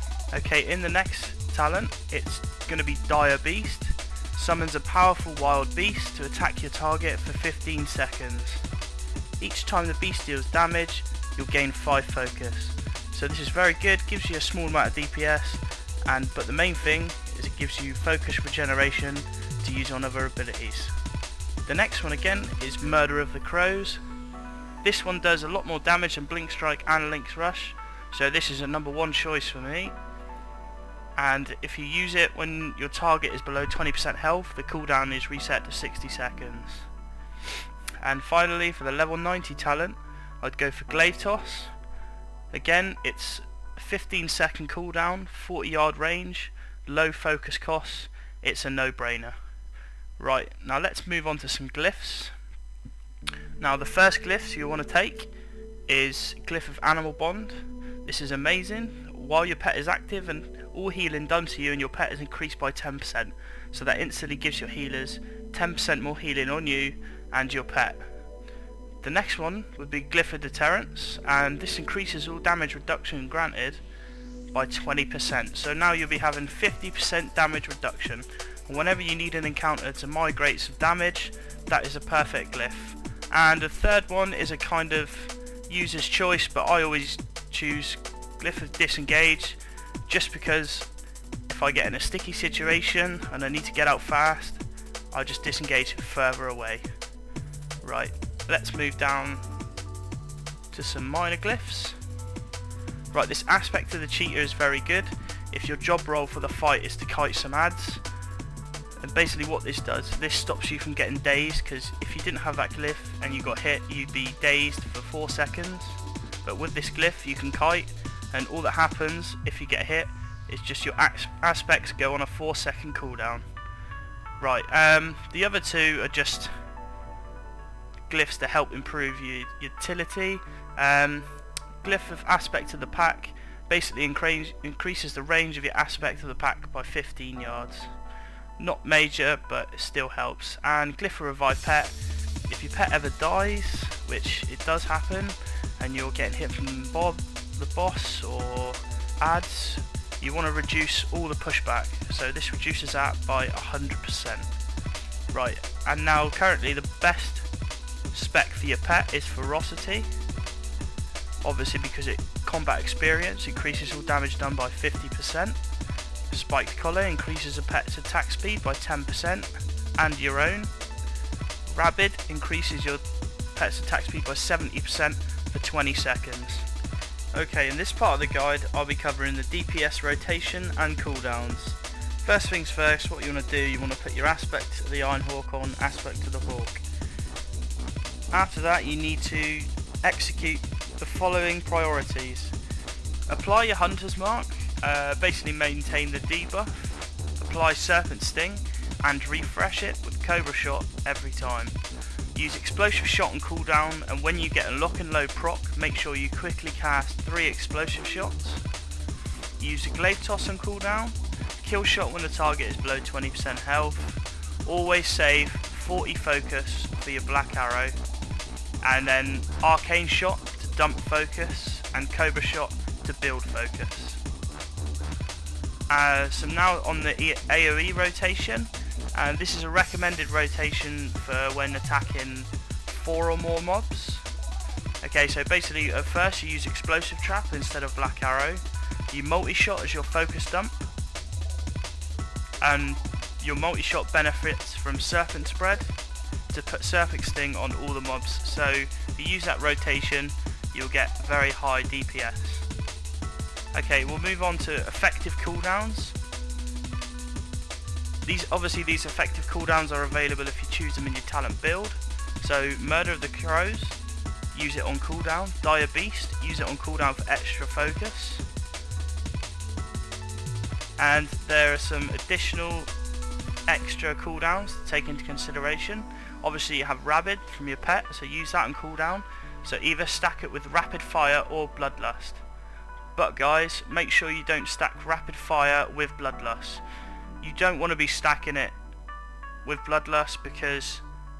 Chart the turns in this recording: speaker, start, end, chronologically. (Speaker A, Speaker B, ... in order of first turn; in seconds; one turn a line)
Speaker A: 0.3-8.6
Speaker A: 9.4-20.9
Speaker A: 21.6-24.0
Speaker A: 24.8-30.0
Speaker A: 31.2-36.9
Speaker A: 38.0-41.7
Speaker A: 42.5-49.4
Speaker A: 50.2-52.4
Speaker A: 53.6-55.3
Speaker A: 55.9-68.1
Speaker A: 69.0-73.8
Speaker A: 74.5-90.9
Speaker A: 91.5-96.9
Speaker A: 97.8-99.5
Speaker A: 100.7-102.0
Speaker A: 103.1-108.0
Speaker A: 109.0-123.5
Speaker A: 124.4-126.6
Speaker A: 128.1-137.9
Speaker A: 138.6-142.0
Speaker A: 142.5-154.5
Speaker A: 155.3-157.5
Speaker A: 158.1-160.1
Speaker A: 161.4-165.6
Speaker A: 166.3-170.7
Speaker A: 171.7-176.7
Speaker A: 177.3-186.8
Speaker A: 188.3-192.6
Speaker A: 193.3-201.8
Speaker A: 202.3-208.6
Speaker A: 209.6-218.0
Speaker A: 218.8-224.2
Speaker A: 225.9-234.3
Speaker A: 235.0-240.7
Speaker A: 242.6-246.0
Speaker A: 246.5-252.7
Speaker A: 253.7-256.2
Speaker A: 258.2-264.0
Speaker A: 264.5-268.5
Speaker A: 271.0-272.9
Speaker A: 273.7-282.4
Speaker A: 283.2-286.8
Speaker A: 287.4-288.8
Speaker A: 289.6-291.0